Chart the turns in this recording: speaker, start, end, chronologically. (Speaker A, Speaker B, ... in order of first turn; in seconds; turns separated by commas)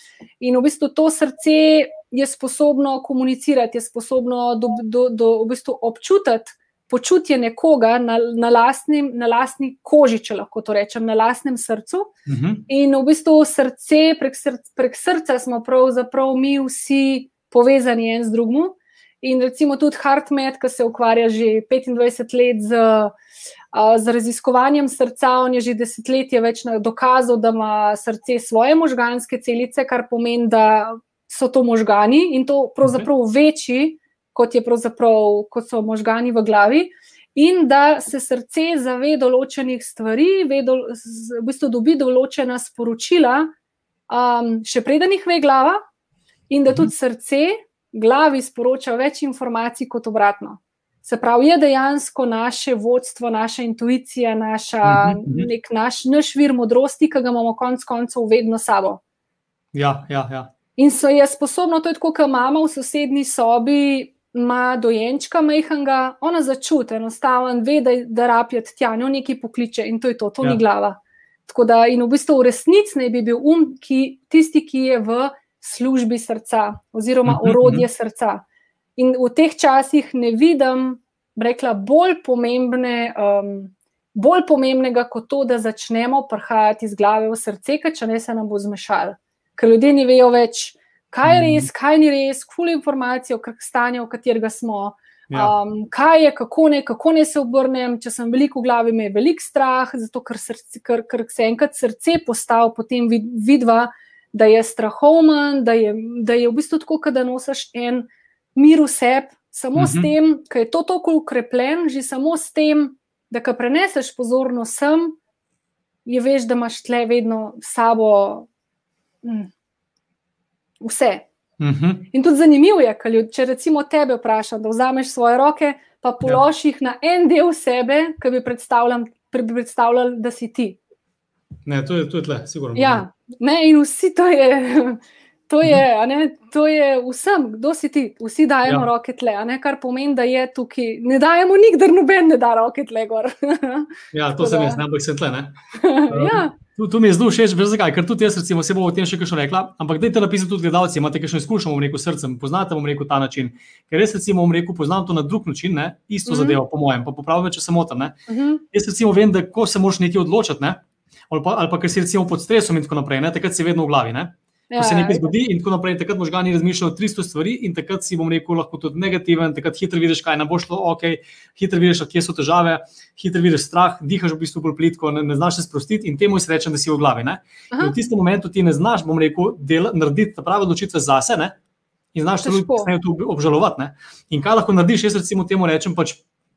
Speaker A: 0.4-12.1, Speaker B: 12.3-12.7, Speaker A: 12.7-23.1, Speaker A: 23.7-43.5, Speaker B: 32.8-33.1, Speaker A: 44.1-45.8, Speaker A: 46.5-59.0, Speaker B: 54.8-55.5, Speaker B: 59.7-60.5, Speaker A: 60.8-78.4, Speaker B: 77.2-77.8, Speaker A: 79.0-115.2, Speaker B: 91.2-91.7, Speaker B: 95.3-95.5, Speaker B: 109.7-110.1, Speaker A: 116.0-118.5, Speaker A: 119.2-119.5, Speaker A: 120.8-121.2, Speaker B: 121.6-122.1, Speaker A: 122.1-130.8, Speaker B: 131.7-133.0, Speaker A: 132.7-144.8, Speaker B: 144.1-145.6, Speaker A: 145.7-146.5, Speaker B: 146.1-158.2, Speaker A: 156.3-156.6, Speaker A: 158.3-158.6, Speaker B: 158.7-181.5, Speaker A: 164.7-165.3, Speaker B: 182.1-186.2, Speaker A: 182.4-182.9